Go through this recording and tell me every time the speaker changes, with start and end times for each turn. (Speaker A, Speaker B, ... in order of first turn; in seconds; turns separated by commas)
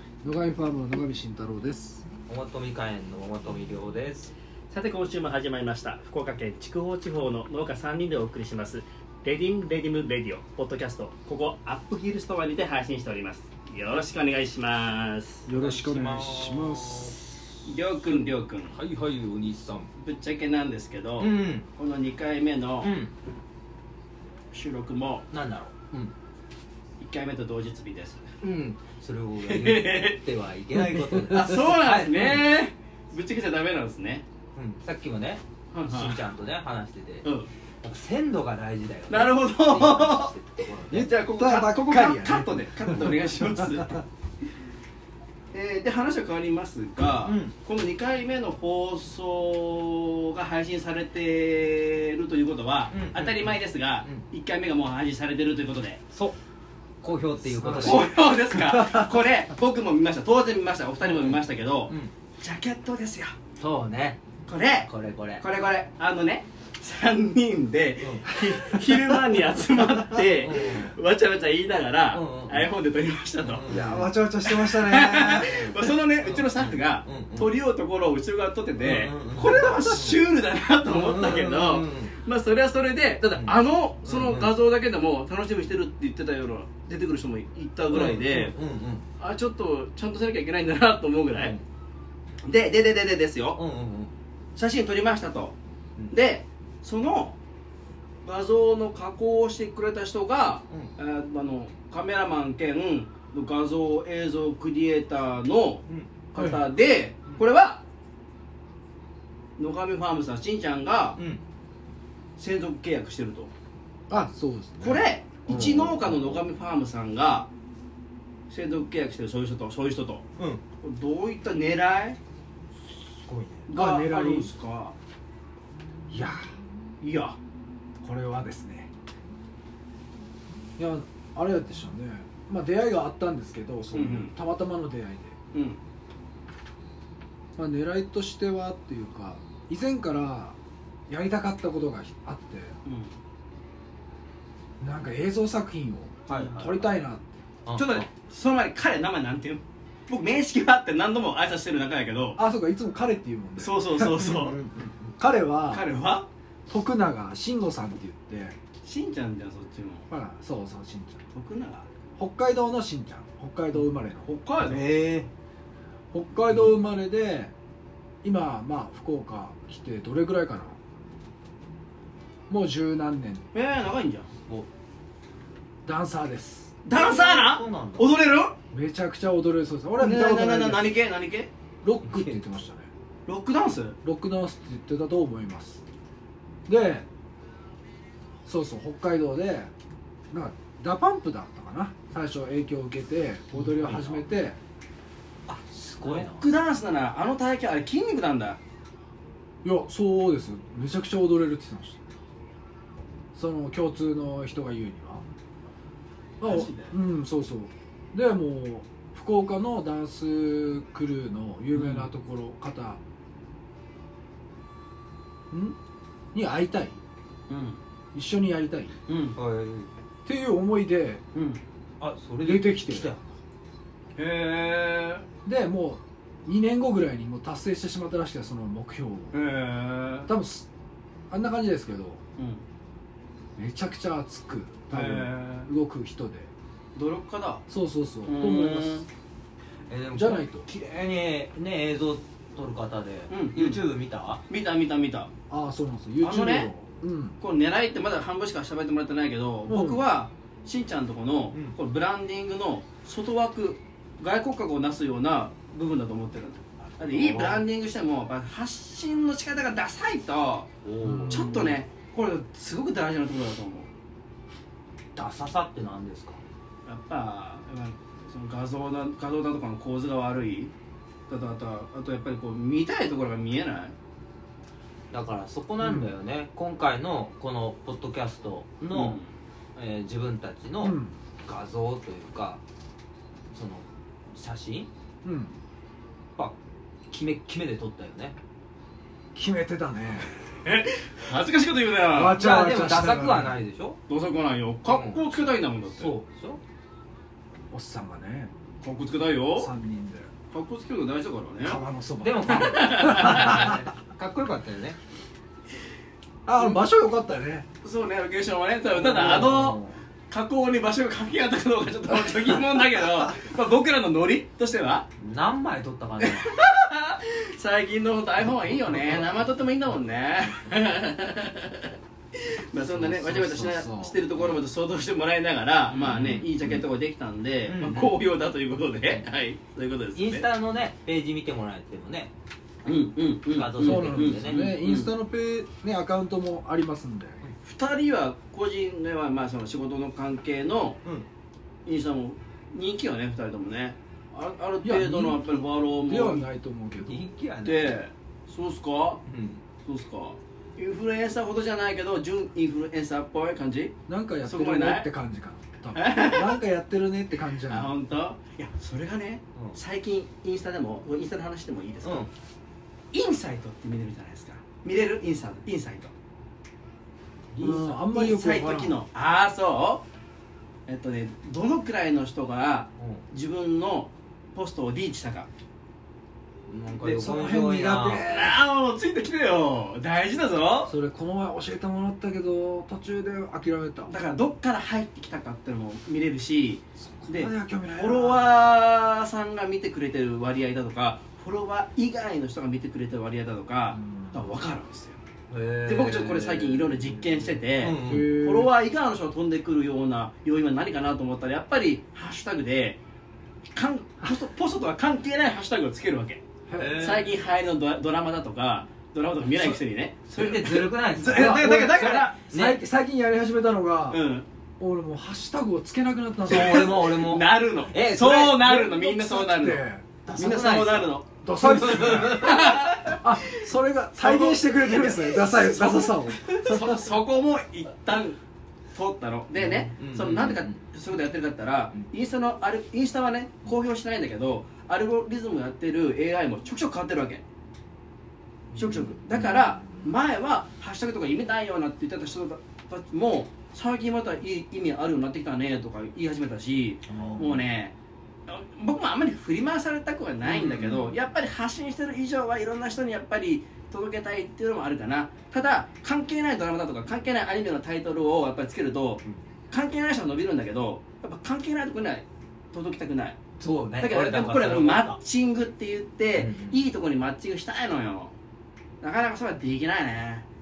Speaker A: 0.2-2.1, Speaker B: 2.3-4.3, Speaker C: 4.7-15.5, Speaker A: 15.5-17.2, Speaker B: 15.5-17.3, Speaker C: 17.6-18.8, Speaker B: 18.1-19.9, Speaker C: 20.0-22.9, Speaker B: 21.2-21.7, Speaker B: 22.8-23.1, Speaker C: 24.5-25.3, Speaker B: 25.3-26.1, Speaker C: 27.0-28.3, Speaker B: 28.4-32.5, Speaker C: 29.4-30.2, Speaker C: 31.2-34.2, Speaker B: 34.5-37.3, Speaker C: 35.7-36.2, Speaker B: 37.8-41.1, Speaker C: 39.1-40.3, Speaker C: 40.9-44.0, Speaker A: 41.2-44.0, Speaker C: 45.5-56.0, Speaker B: 47.2-47.5, Speaker B: 52.9-54.2, Speaker B: 57.0-58.1, Speaker A: 57.4-59.1, Speaker C: 57.7-63.4, Speaker B: 61.0-62.1, Speaker B: 63.6-64.2, Speaker C: 64.5-73.7, Speaker B: 64.9-65.5, Speaker B: 68.0-68.3, Speaker B: 70.1-71.0, Speaker B: 72.1-72.7, Speaker B: 73.4-74.1, Speaker A: 73.7-75.7, Speaker C: 74.4-88.5, Speaker B: 75.3-77.5, Speaker B: 78.8-80.2, Speaker B: 80.8-82.1, Speaker B: 83.4-84.5, Speaker B: 87.9-89.0, Speaker C: 89.2-91.5, Speaker B: 91.4-91.6, Speaker C: 92.5-93.6, Speaker B: 93.6-94.1, Speaker C: 94.6-95.6, Speaker C: 96.1-97.4, Speaker C: 98.2-107.8, Speaker C: 109.6-111.2, Speaker C: 112.4-113.5, Speaker A: 114.1-115.0, Speaker C: 114.8-117.5, Speaker B: 115.5-116.4, Speaker C: 118.5-120.2, Speaker C: 120.8-122.2, Speaker B: 123.2-123.7, Speaker A: 123.7-124.5, Speaker C: 123.7-125.0, Speaker A: 126.1-126.5, Speaker C: 127.0-127.4, Speaker A: 128.0-128.9, Speaker A: 130.8-135.3, Speaker C: 133.9-134.3, Speaker C: 135.5-135.8, Speaker A: 137.6-140.6, Speaker A: 141.1-142.8, Speaker C: 142.8-143.1, Speaker A: 144.8-147.4, Speaker B: 146.3-146.9, Speaker B: 147.7-148.1, Speaker C: 147.7-152.4, Speaker A: 152.4-154.3, Speaker C: 153.6-154.6, Speaker B: 154.2-155.1, Speaker A: 155.2-155.9, Speaker C: 155.7-156.3, Speaker A: 156.7-158.6, Speaker C: 158.8-160.1, Speaker A: 160.1-161.2, Speaker C: 161.3-161.9, Speaker A: 162.2-164.3, Speaker C: 164.2-164.9, Speaker B: 164.7-165.3, Speaker A: 166.1-167.5, Speaker A: 168.2-170.8, Speaker A: 172.5-173.5, Speaker C: 173.5-174.3, Speaker A: 175.8-176.8, Speaker C: 176.8-178.6, Speaker B: 176.9-178.1, Speaker A: 178.7-180.9, Speaker C: 180.0-181.5, Speaker A: 181.8-182.9, Speaker C: 183.3-184.0, Speaker A: 184.0-185.8, Speaker A: 186.7-187.1, Speaker A: 188.5-189.7, Speaker A: 190.3-194.6, Speaker B: 193.5-194.2, Speaker B: 195.5-196.5, Speaker C: 196.0-198.6, Speaker A: 199.6-202.0, Speaker A: 203.3-205.2, Speaker A: 206.4-213.0, Speaker C: 206.4-206.9, Speaker A: 215.5-215.8, Speaker A: 216.3-217.0, Speaker C: 217.5-217.8, Speaker A: 218.1-219.0, Speaker C: 219.1-219.4, Speaker B: 219.4-219.9, Speaker A: 220.2-221.2, Speaker C: 221.3-221.6, Speaker B: 222.0-223.2, Speaker A: 222.4-223.2, Speaker C: 224.2-225.3, Speaker A: 225.4-229.3, Speaker C: 229.3-230.3, Speaker A: 230.3-230.7, Speaker A: 231.3-232.2, Speaker C: 232.4-232.6, Speaker A: 233.6-236.5, Speaker C: 234.9-235.7, Speaker C: 237.0-237.6, Speaker A: 237.7-239.1, Speaker C: 238.3-239.1, Speaker B: 239.9-244.4, Speaker A: 240.1-240.7, Speaker C: 243.3-243.8, Speaker C: 244.5-245.3, Speaker A: 245.5-247.4, Speaker C: 246.2-246.7, Speaker C: 247.4-260.7, Speaker A: 249.7-250.0, Speaker B: 257.0-257.6, Speaker B: 260.8-261.8, Speaker A: 261.0-261.7, Speaker C: 261.3-263.9, Speaker B: 265.1-266.4, Speaker C: 266.9-270.7, Speaker C: 271.3-273.9, Speaker B: 275.1-279.2, Speaker A: 275.8-276.1, Speaker C: 278.9-279.3, Speaker B: 279.8-282.6, Speaker A: 280.8-281.2, Speaker B: 283.5-284.9, Speaker A: 285.2-285.6, Speaker B: 287.1-288.4, Speaker A: 289.4-290.3, Speaker C: 290.6-292.4, Speaker A: 292.1-293.6, Speaker B: 292.3-294.0, Speaker C: 294.1-296.1, Speaker B: 294.9-295.3, Speaker B: 295.9-296.6, Speaker A: 297.7-298.5, Speaker C: 298.8-299.7, Speaker A: 299.6-300.3, Speaker C: 300.5-301.8, Speaker A: 301.6-303.9, Speaker B: 302.2-305.0, Speaker C: 302.5-303.8, Speaker A: 306.5-307.7, Speaker C: 307.8-315.1, Speaker B: 308.9-310.0, Speaker B: 315.2-316.6, Speaker C: 316.2-330.5, Speaker B: 319.0-319.2, Speaker A: 322.9-324.3, Speaker B: 325.9-326.8, Speaker B: 327.7-328.2, Speaker B: 330.1-332.3, Speaker C: 332.9-335.1, Speaker B: 333.5-334.7, Speaker A: 333.8-337.4, Speaker C: 337.6-341.0, Speaker C: 341.9-346.4, Speaker A: 344.8-345.4, Speaker A: 346.1-347.3, Speaker B: 347.0-348.0, Speaker C: 347.6-349.2, Speaker B: 349.3-349.6, Speaker C: 349.9-355.1, Speaker A: 354.1-357.9, Speaker C: 355.9-356.6, Speaker C: 357.7-362.3, Speaker B: 362.0-362.3, Speaker C: 363.1-366.1, Speaker C: 367.5-370.0, Speaker A: 367.6-369.0, Speaker C: 370.9-375.5, Speaker B: 373.0-373.2, Speaker B: 376.7-378.3, Speaker A: 377.0-378.6, Speaker C: 378.2-380.9, Speaker A: 380.9-384.1, Speaker C: 384.1-395.2, Speaker A: 387.0-388.6, Speaker A: 393.9-394.5, Speaker B: 395.5-398.4, Speaker C: 395.9-403.0, Speaker A: 398.0-398.7, Speaker C: 403.8-406.4, Speaker A: 406.7-407.1, Speaker B: 406.7-407.3, Speaker C: 407.0-412.4, Speaker B: 410.3-412.8, Speaker A: 411.2-414.2, Speaker C: 414.1-414.5, Speaker A: 414.8-417.0, Speaker B: 416.4-418.8, Speaker C: 416.5-419.8, Speaker A: 418.6-420.1, Speaker B: 420.3-423.0, Speaker C: 420.4-423.6, Speaker A: 421.4-422.6, Speaker A: 423.2-427.1, Speaker C: 424.2-428.4, Speaker C: 428.9-437.4, Speaker B: 429.6-430.8, Speaker B: 438.8-439.9, Speaker C: 438.8-448.0, Speaker A: 447.1-447.6, Speaker B: 447.1-447.6, Speaker C: 448.5-463.4, Speaker B: 450.5-451.2, Speaker B: 463.6-465.2, Speaker C: 464.0-468.3, Speaker B: 466.4-466.8, Speaker C: 469.0-470.4